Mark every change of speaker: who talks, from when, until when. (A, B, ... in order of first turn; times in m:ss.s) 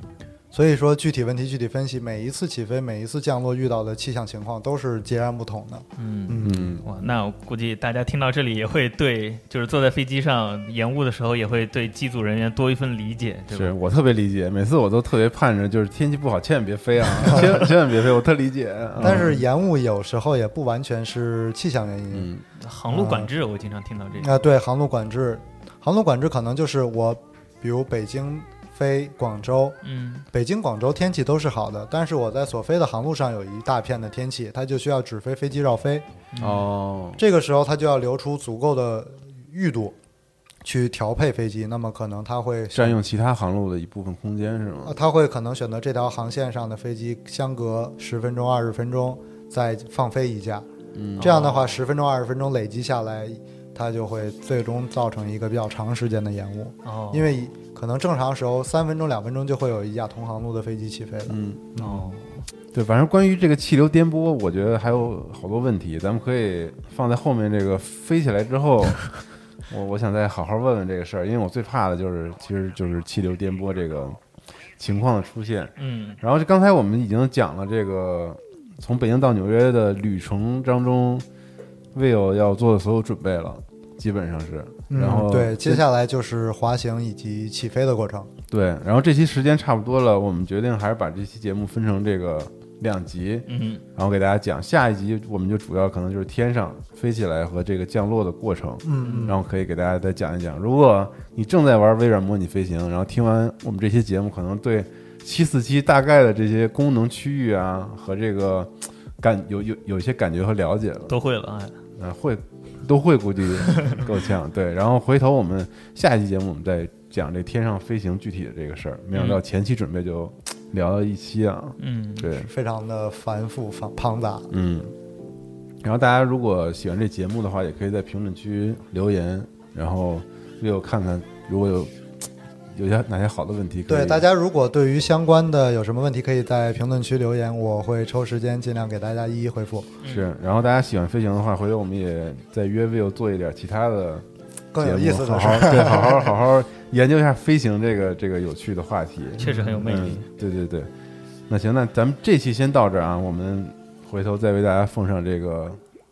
0:00.5-0:06.7 A
0:06.0-0:13.7 B
0:06.4-0:06.8 C
0:13.5-0:19.4 C
0:19.0-0:22.3 A
0:22.1-0:22.4 C
0:22.6-0:24.4 B
0:22.9-0:23.3 A
0:24.2-0:29.8 A
0:29.8-0:30.3 B
0:30.3-0:36.1 A
0:36.3-0:36.7 B
0:36.4-0:37.2 C
0:37.2-0:40.0 A
0:40.6-0:43.0 A
0:42.7-0:45.0 C
0:44.8-0:50.7 A
0:50.9-0:51.3 C
0:51.2-1:02.2 A
0:51.2-0:51.8 B
0:56.8-0:57.3 B
1:01.3-1:01.7 C
1:01.8-1:02.4 B
1:02.7-1:09.2 C
1:09.7-1:14.2 C
1:14.8-1:21.2 C
1:15.8-1:16.2 B
1:21.9-1:25.8 C
1:24.9-1:28.3 A
1:28.5-1:51.2 C
1:33.5-1:33.8 B
1:38.8-1:39.4 A
1:39.0-1:39.3 B
1:51.1-1:51.8 B
1:52.0-2:02.5 C
1:53.7-1:54.0 B
1:59.1-1:59.4 B
2:01.8-2:02.3 B
2:02.4-2:04.5 A
2:04.5-2:04.9 C
2:05.8-2:11.9 C
2:12.7-2:14.2 C
2:13.9-2:19.9 A
2:20.0-2:20.3 B
2:20.1-2:24.3 C
2:24.7-2:26.3 A
2:24.8-2:30.9 C
2:29.4-2:30.3 B
2:29.4-2:29.8 A
2:31.5-2:35.8 C